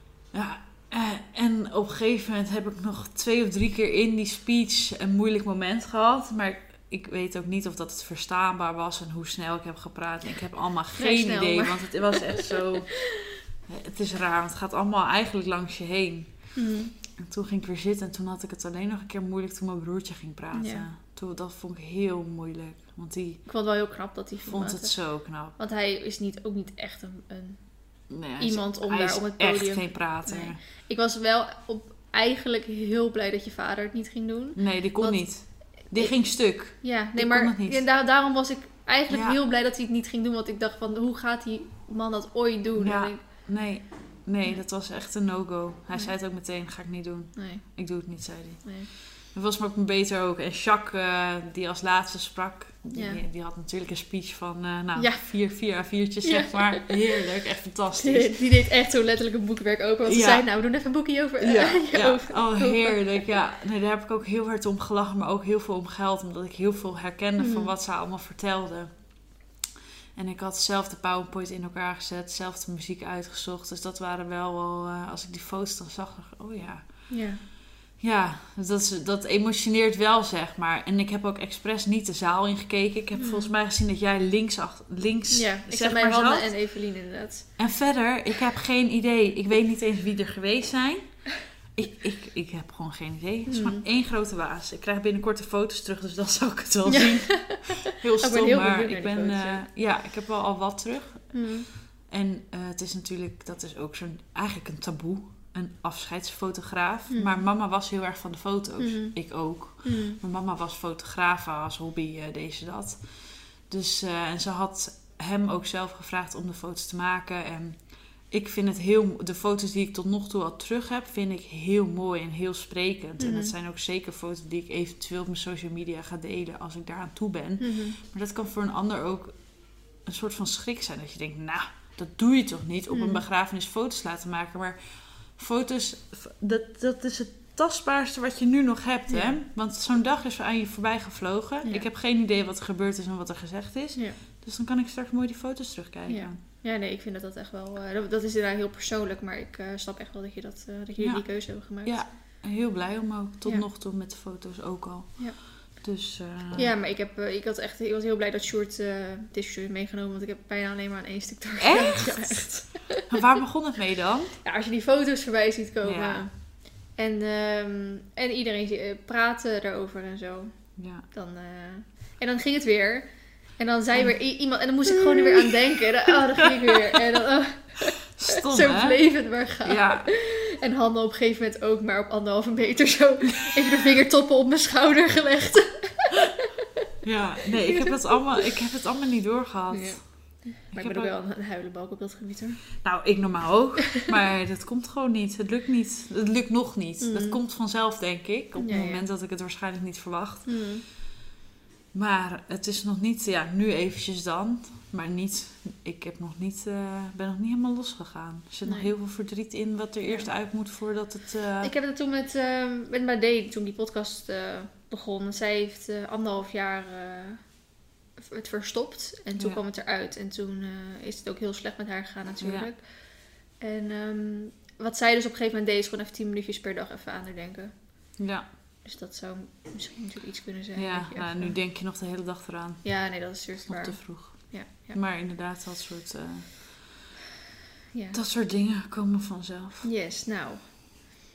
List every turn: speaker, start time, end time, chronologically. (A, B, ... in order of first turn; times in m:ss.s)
0:00.3-0:16.6 A
0:11.0-0:13.3 B
0:16.6-0:17.0 B
0:17.1-0:23.5 A
0:20.5-0:20.9 B
0:23.5-0:25.0 B
0:24.5-0:25.6 A
0:25.6-0:43.5 B
0:28.1-0:30.6 A
0:34.6-0:37.8 A
0:39.1-0:39.4 A
0:42.8-0:58.4 A
0:47.4-0:47.6 B
0:48.6-0:48.9 B
0:52.9-0:53.2 B
0:55.0-0:55.6 B
0:56.2-0:57.0 B
0:58.0-1:03.3 B
1:00.1-1:00.6 A
1:01.4-1:09.5 A
1:07.4-1:07.7 B
1:10.2-1:17.2 A
1:17.1-1:17.4 B
1:17.9-1:26.5 A
1:23.2-1:23.5 B
1:25.3-1:27.7 B
1:27.6-2:26.4 A
1:33.5-1:33.8 B
1:36.9-1:39.6 B
1:41.3-1:41.7 B
1:47.1-1:47.4 B
1:48.8-1:50.2 B
2:03.2-2:03.5 B
2:07.6-2:08.0 B
2:12.9-2:13.2 B
2:19.1-2:19.4 B
2:21.6-2:21.9 B
2:26.1-2:32.0 B
2:31.0-2:36.7 A
2:36.6-2:43.1 B
2:41.6-2:44.4 A
2:44.4-3:06.5 B
2:45.8-2:46.2 A
2:50.8-2:51.1 A
2:54.9-2:57.0 A
2:58.1-2:59.0 A
2:59.6-3:00.1 A
3:07.0-3:11.1 A
3:07.7-3:08.5 B
3:09.7-3:12.8 B
3:12.8-3:20.6 A
3:17.0-3:17.4 B
3:18.6-3:19.0 B
3:20.5-3:20.8 B
3:21.9-3:31.7 A
3:28.6-3:28.9 B
3:30.1-3:30.3 B
3:31.6-3:48.1 B
3:42.4-3:42.7 A
3:48.2-3:48.5 A
3:48.8-3:51.6 B
3:50.8-3:57.1 A
3:52.8-3:55.0 B
3:57.9-3:58.2 B
3:58.1-3:59.9 A
3:59.8-4:01.2 B